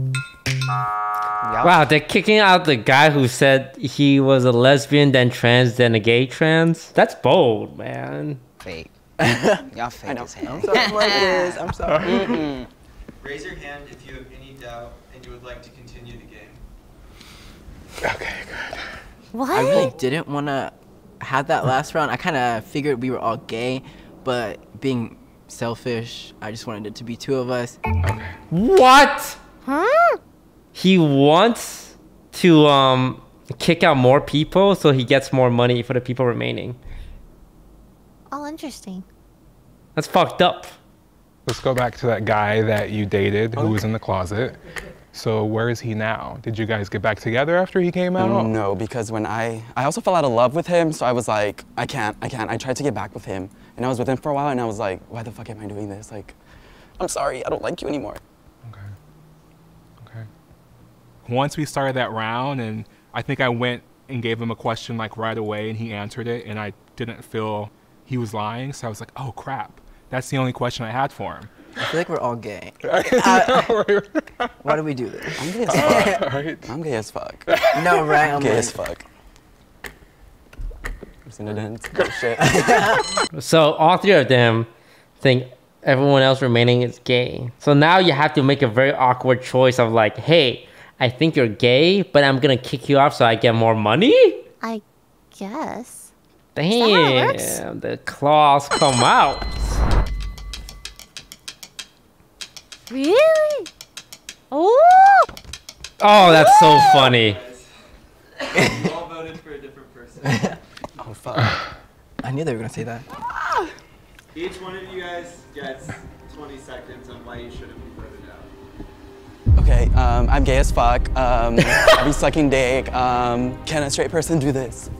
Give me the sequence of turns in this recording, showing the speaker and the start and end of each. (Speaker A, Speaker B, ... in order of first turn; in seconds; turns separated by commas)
Speaker A: 1.4-1.9, Speaker B: 1.6-8.4, Speaker A: 8.6-8.9, Speaker C: 9.2-9.6, Speaker A: 9.7-12.7, Speaker D: 10.1-10.9, Speaker C: 10.4-12.4, Speaker E: 13.2-16.6, Speaker F: 18.0-18.8, Speaker G: 19.3-19.9, Speaker C: 19.5-27.8, Speaker F: 28.0-28.3, Speaker B: 28.5-29.4, Speaker G: 29.6-30.2, Speaker B: 30.7-36.8, Speaker G: 38.3-39.0, Speaker B: 40.0-40.8, Speaker F: 41.5-44.6, Speaker F: 45.1-48.5, Speaker D: 48.2-56.4, Speaker D: 57.0-58.2, Speaker F: 60.0-60.3, Speaker F: 61.2-71.5, Speaker C: 71.8-73.8, Speaker F: 72.8-74.8, Speaker C: 74.6-76.3, Speaker D: 75.4-77.5, Speaker F: 75.7-76.7, Speaker F: 77.5-78.2, Speaker C: 77.7-78.8, Speaker D: 78.2-79.0, Speaker D: 81.2-82.6, Speaker C: 82.4-82.9, Speaker B: 83.3-84.7, Speaker B: 85.2-94.4, Speaker G: 95.3-96.1, Speaker B: 96.5-99.8, Speaker G: 96.7-97.6, Speaker G: 102.9-103.7, Speaker G: 104.5-105.3, Speaker B: 106.0-107.4, Speaker E: 106.1-106.4, Speaker G: 106.5-106.8, Speaker E: 107.0-107.6, Speaker C: 108.5-109.0, Speaker E: 108.6-110.4, Speaker C: 110.2-110.6, Speaker D: 111.0-111.6, Speaker C: 112.2-113.0, Speaker E: 114.3-118.5, Speaker D: 119.5-124.9